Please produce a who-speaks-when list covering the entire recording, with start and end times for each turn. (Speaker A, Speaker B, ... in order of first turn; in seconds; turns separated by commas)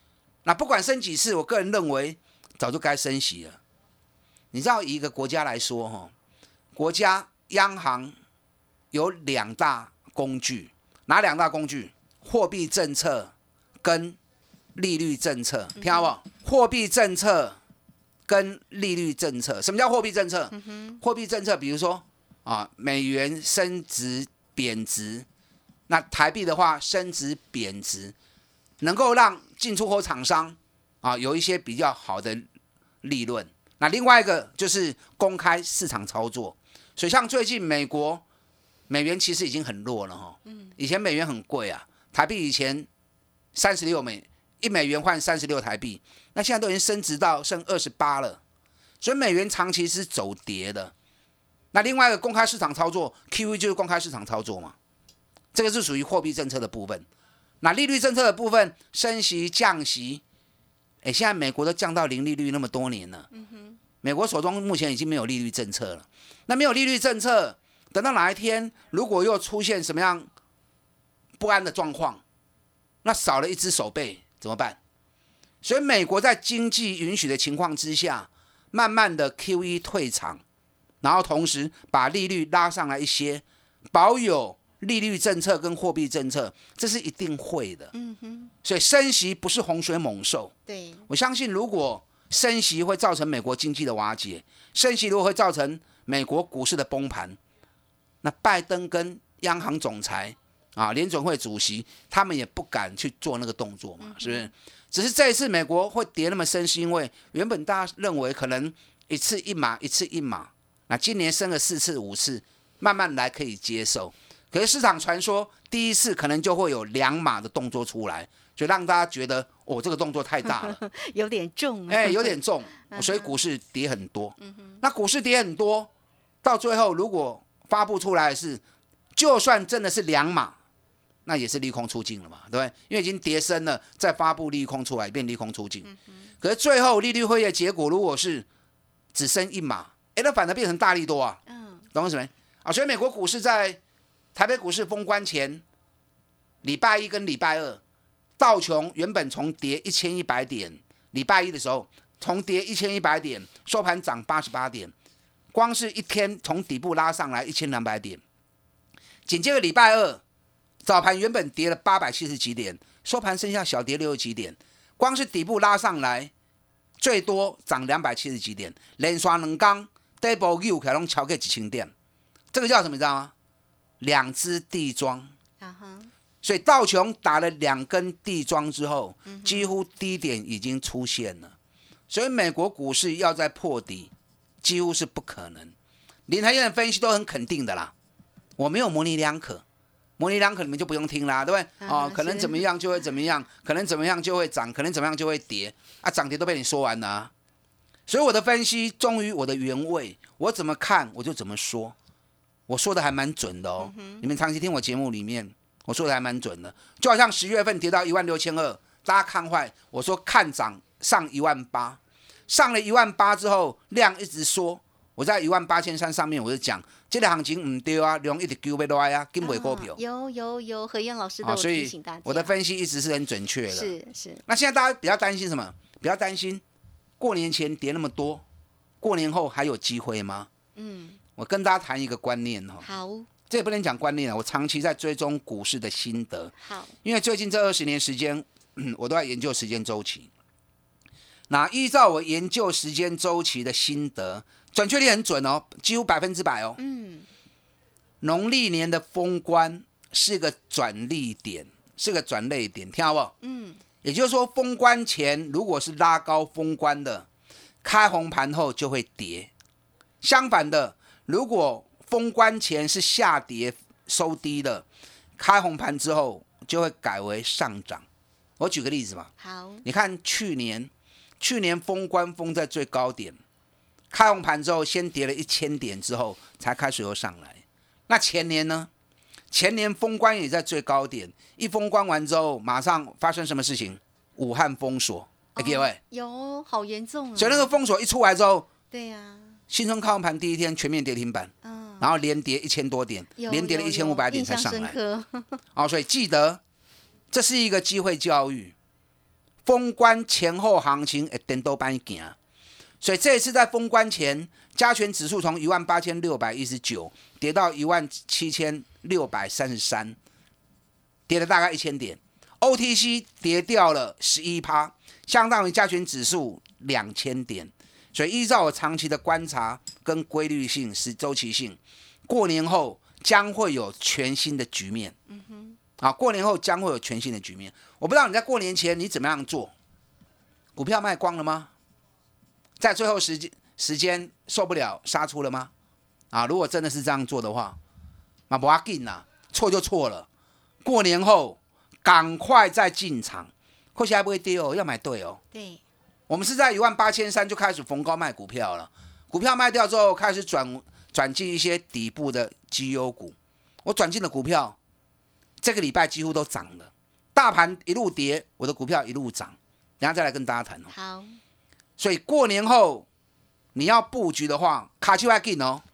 Speaker A: 0.5-3.6, Speaker A: 4.5-6.1, Speaker A: 6.7-8.1, Speaker A: 8.9-14.2, Speaker A: 14.8-17.6, Speaker B: 15.8-16.1, Speaker A: 18.3-25.3, Speaker B: 20.6-21.0, Speaker A: 25.9-28.1, Speaker A: 28.8-32.5, Speaker A: 33.0-38.2, Speaker A: 38.9-42.9, Speaker B: 40.5-40.8, Speaker A: 43.5-48.4, Speaker A: 49.0-50.9, Speaker A: 51.7-54.8, Speaker A: 55.5-57.1, Speaker A: 57.6-60.2, Speaker A: 61.0-63.3, Speaker B: 63.3-63.8, Speaker A: 64.0-70.3, Speaker A: 71.4-72.2, Speaker A: 73.0-74.8, Speaker A: 75.6-80.4, Speaker A: 81.0-87.9, Speaker B: 87.9-88.5, Speaker A: 88.6-90.5, Speaker B: 90.7-91.1, Speaker A: 91.1-97.4, Speaker A: 98.2-120.8, Speaker B: 104.0-104.5, Speaker B: 120.5-123.3, Speaker A: 121.9-125.9, Speaker B: 124.4-124.8, Speaker A: 126.4-128.6, Speaker A: 129.2-130.6, Speaker A: 131.3-135.9, Speaker B: 135.8-136.3, Speaker A: 136.4-138.5, Speaker A: 139.1-141.4, Speaker B: 141.5-141.9, Speaker A: 141.9-143.8, Speaker A: 144.3-145.6, Speaker A: 146.6-147.8, Speaker A: 148.4-154.9, Speaker A: 155.5-158.2, Speaker A: 159.3-160.2, Speaker A: 160.8-166.3, Speaker A: 167.0-171.9, Speaker A: 172.5-173.3, Speaker A: 174.0-175.3, Speaker B: 175.6-176.1, Speaker A: 176.4-181.5, Speaker B: 179.3-179.7, Speaker A: 182.1-185.7, Speaker A: 186.3-187.9, Speaker A: 188.6-189.6, Speaker A: 190.2-197.3, Speaker B: 191.8-192.6, Speaker A: 198.1-201.9, Speaker A: 202.7-220.0, Speaker B: 203.8-204.3, Speaker B: 219.4-222.6, Speaker A: 221.4-223.9, Speaker B: 223.7-224.4, Speaker A: 224.5-226.6, Speaker A: 227.2-228.4, Speaker A: 229.0-230.5, Speaker B: 230.8-231.2, Speaker A: 231.4-232.8, Speaker B: 232.8-233.3, Speaker A: 233.5-236.5, Speaker B: 236.6-236.9, Speaker A: 237.0-240.3, Speaker A: 241.5-246.8, Speaker B: 246.8-247.3, Speaker A: 248.2-253.3, Speaker B: 253.4-253.8, Speaker A: 254.0-257.3, Speaker A: 257.8-259.5, Speaker A: 260.2-264.9, Speaker A: 265.4-268.1, Speaker A: 268.6-269.3, Speaker B: 269.4-269.8, Speaker A: 269.8-273.4, Speaker A: 274.1-278.9, Speaker A: 279.5-286.0, Speaker B: 285.6-287.7, Speaker A: 287.4-288.7, Speaker B: 288.9-289.6, Speaker A: 289.7-295.0, Speaker B: 291.6-292.1, Speaker B: 293.4-295.6, Speaker A: 295.8-296.6, Speaker A: 297.3-298.8, Speaker A: 299.6-302.4, Speaker A: 303.0-310.2, Speaker A: 311.3-325.2, Speaker B: 325.3-325.8, Speaker A: 326.0-329.7, Speaker A: 330.8-331.7, Speaker A: 332.8-335.7, Speaker A: 336.3-337.8, Speaker A: 338.5-340.3, Speaker A: 340.8-345.4, Speaker B: 345.5-345.8, Speaker A: 346.3-354.8, Speaker A: 355.6-360.9, Speaker B: 360.9-361.4, Speaker A: 362.0-363.1, Speaker A: 363.8-365.8